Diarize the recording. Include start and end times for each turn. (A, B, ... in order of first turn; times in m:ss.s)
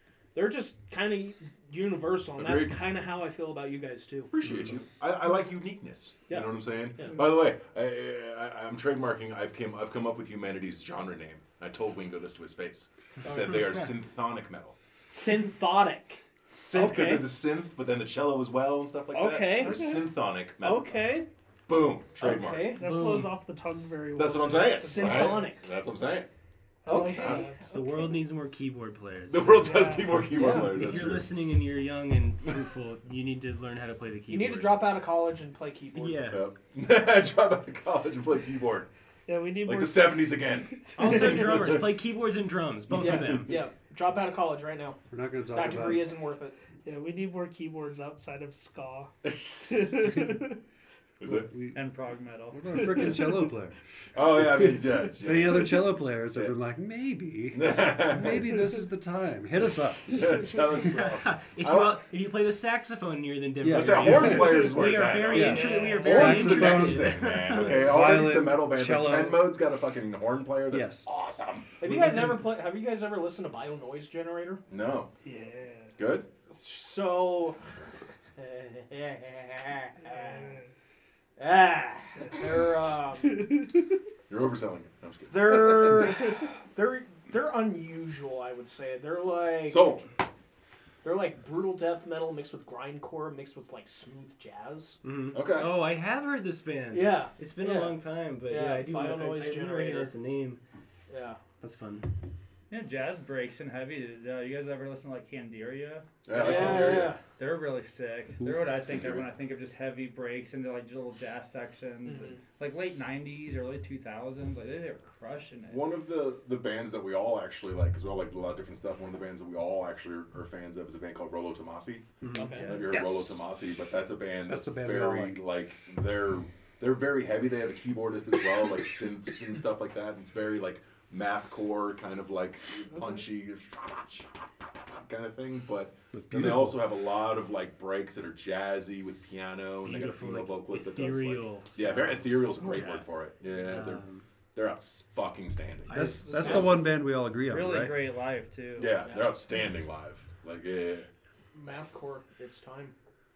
0:00.3-0:04.6 A
0:02.4-0:02.8 B
0:04.3-0:14.7 B
0:06.3-0:07.3 A
0:13.2-0:13.6 A
0:15.1-0:17.3 A
0:16.5-0:21.1 B
0:19.1-0:20.1 A
0:19.6-0:19.9 C
0:20.6-0:21.3 A
0:21.7-0:22.8 B
0:22.2-0:22.8 A
0:22.7-0:25.5 C
0:22.8-0:23.4 D
0:24.1-0:26.3 B
0:24.8-0:25.7 A
0:26.9-0:27.6 C
0:26.9-0:28.2 A
0:26.9-0:27.4 B
0:27.7-0:29.7 D
0:29.3-0:31.3 B
0:29.6-0:30.2 C
0:30.3-0:34.9 D
0:30.3-0:30.7 A
0:34.3-0:36.4 A
0:35.9-0:36.4 D
0:36.3-0:38.9 B
0:39.3-0:41.5 C
0:39.6-0:41.9 B
0:41.0-0:43.6 D
0:42.9-0:45.0 A
0:45.1-0:46.2 E
0:45.5-0:46.6 A
0:46.8-0:49.1 C
0:49.7-0:50.6 C
0:51.2-0:51.5 B
0:51.2-0:51.8 E
0:51.7-0:52.6 F
0:52.5-0:53.8 E
0:52.9-0:53.4 C
0:54.1-0:56.5 B
0:54.4-1:00.6 E
0:57.5-0:58.6 B
1:00.1-1:02.0 B
1:00.9-1:07.9 D
1:03.6-1:09.5 E
1:03.6-1:11.7 B
1:05.4-1:06.6 C
1:10.7-1:11.1 E
1:11.8-1:14.6 A
1:14.7-1:15.1 B
1:15.2-1:16.0 C
1:16.0-1:16.2 B
1:16.5-1:17.6 A
1:18.4-1:20.6 A
1:20.0-1:20.6 C
1:21.4-1:23.7 A
1:24.3-1:26.1 B
1:25.3-1:30.0 A
1:29.7-1:30.0 B
1:31.0-1:35.0 A
1:35.0-1:40.6 D
1:35.3-1:35.8 B
1:36.9-1:40.1 A
1:41.1-1:41.4 A
1:41.6-1:42.1 D
1:42.7-1:55.9 F
1:46.2-1:47.2 B
1:46.3-1:47.2 A
1:48.9-1:49.2 B
1:52.0-1:52.4 A
1:55.7-2:02.0 B
2:02.2-2:02.7 D
2:02.3-2:02.9 A
2:02.6-2:14.3 B
2:02.9-2:03.4 E
2:04.5-2:05.4 E
2:14.9-2:24.0 B
2:16.1-2:16.8 E
2:19.8-2:24.2 D
2:22.6-2:23.0 A
2:24.5-2:26.7 B
2:25.9-2:26.8 D
2:25.9-2:28.0 E
2:26.4-2:26.8 A
2:27.4-2:28.9 F
2:28.8-2:31.1 B
2:29.0-2:29.3 A
2:31.5-2:32.9 A